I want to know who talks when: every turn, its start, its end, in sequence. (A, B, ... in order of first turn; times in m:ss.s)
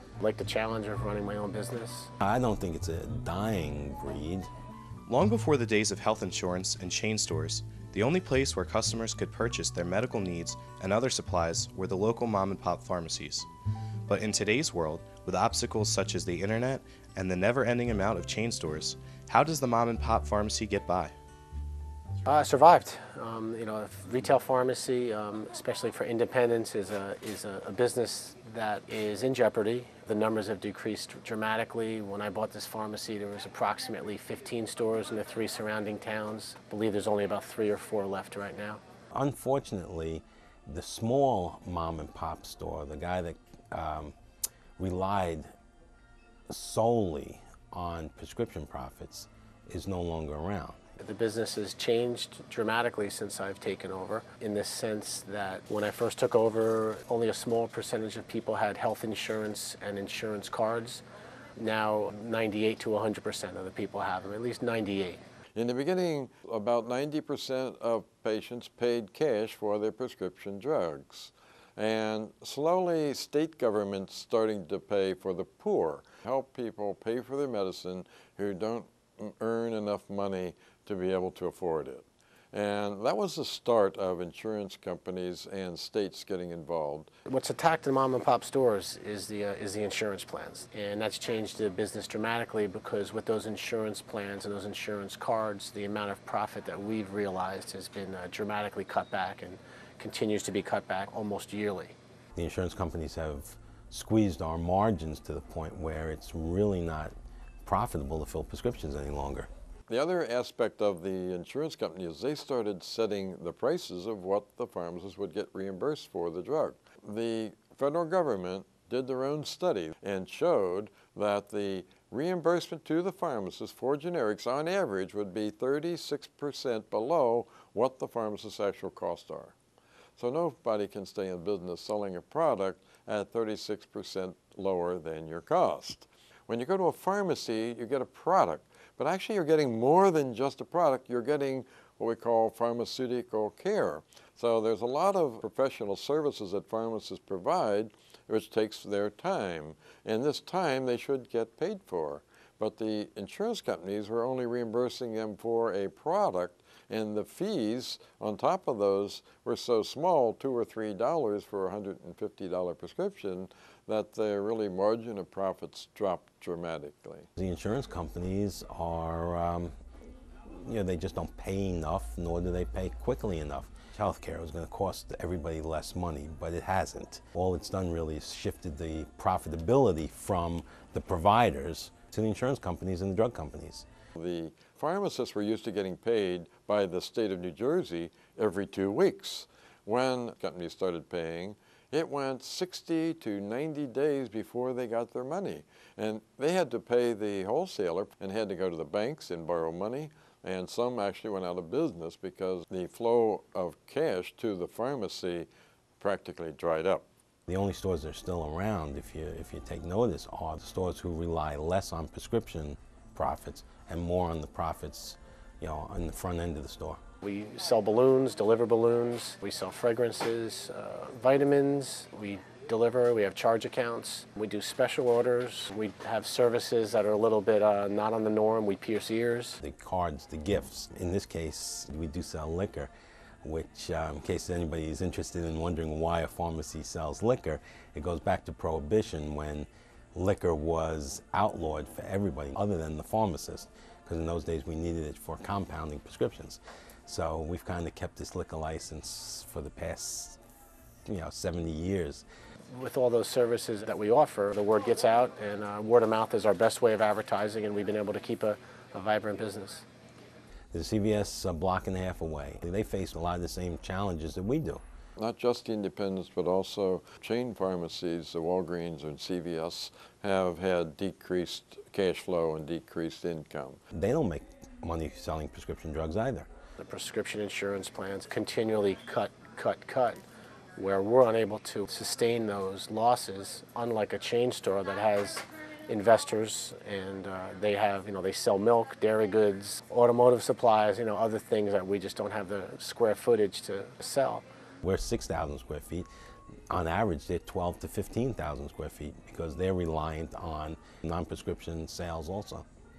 0:00.2-0:02.1 A
0:02.2-0:04.5 B
0:05.1-0:13.5 C
0:14.1-0:21.1 C
0:22.2-0:38.8 A
0:39.1-0:44.1 B
0:44.8-0:45.5 B
0:46.5-0:50.8 B
0:51.0-1:01.0 A
1:01.6-1:05.2 A
1:05.6-1:27.1 D
1:27.3-1:42.0 A
1:42.4-1:47.1 B
1:47.6-1:49.5 B
1:49.9-2:09.5 D
2:10.2-2:47.3 D
2:47.4-2:49.7 B
2:50.5-3:03.8 B
3:04.2-3:25.5 D
3:26.0-3:27.0 D
3:27.5-3:37.0 B
3:37.2-3:49.6 A
3:49.6-3:52.9 B
3:53.4-4:10.4 B
4:11.1-4:12.2 B
4:12.7-4:19.8 A
4:20.7-4:24.8 B
4:25.2-4:33.8 D
4:33.9-4:36.5 B
4:36.8-4:40.2 A
4:40.8-4:54.4 A
4:54.8-4:56.1 B
4:56.7-5:02.6 B